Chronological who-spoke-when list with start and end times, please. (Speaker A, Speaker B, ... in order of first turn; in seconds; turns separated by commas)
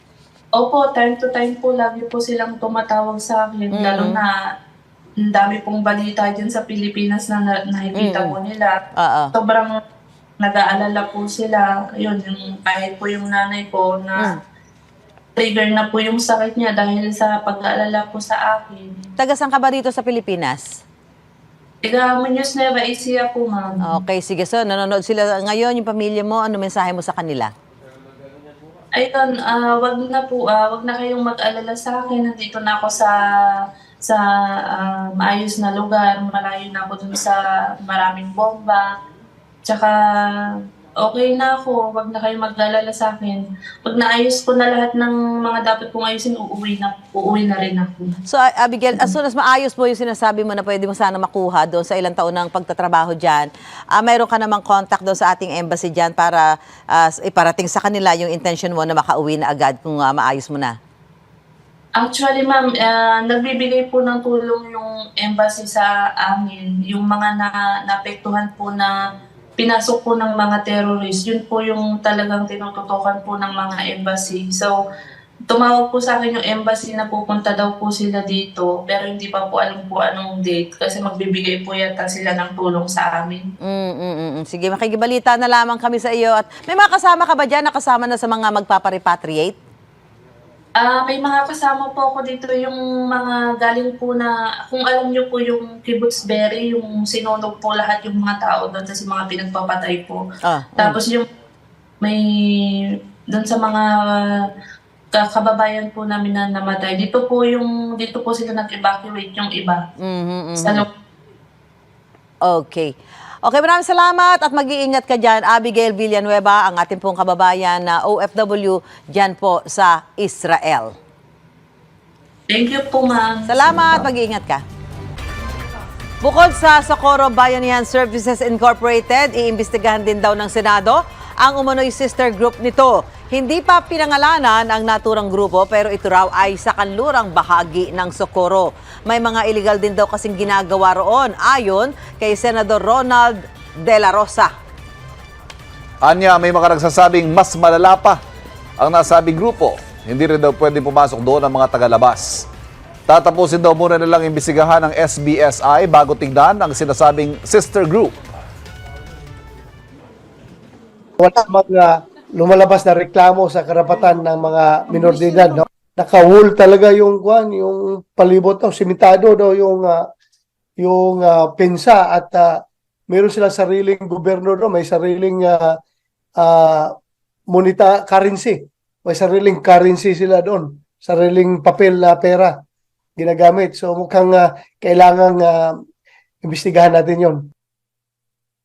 Speaker A: 0.6-4.3, Speaker B: 3.7-4.2, Speaker A: 5.2-8.8, Speaker B: 7.9-8.3, Speaker B: 8.9-9.3, Speaker A: 9.3-9.8, Speaker A: 10.4-14.3, Speaker A: 15.3-19.1, Speaker B: 19.2-20.8, Speaker A: 21.8-23.9, Speaker B: 23.8-27.5, Speaker A: 28.9-33.1, Speaker A: 34.0-38.9, Speaker A: 39.6-40.0, Speaker A: 41.0-48.1, Speaker B: 48.3-60.8, Speaker A: 62.0-68.9, Speaker A: 69.6-74.7, Speaker A: 75.5-83.5, Speaker B: 83.6-89.6, Speaker A: 90.8-100.2, Speaker B: 100.4-101.0, Speaker A: 100.8-101.3, Speaker A: 102.0-104.4, Speaker A: 105.1-109.8, Speaker B: 110.0-110.8, Speaker A: 110.6-110.9, Speaker B: 112.4-121.0, Speaker A: 122.5-124.0, Speaker B: 123.5-124.6, Speaker B: 126.2-144.5, Speaker C: 146.0-148.2, Speaker C: 148.8-152.4, Speaker C: 153.1-158.1, Speaker D: 161.2-170.0, Speaker D: 170.8-175.7, Speaker D: 176.4-176.9, Speaker D: 177.5-182.6, Speaker D: 183.2-185.6, Speaker D: 186.4-187.4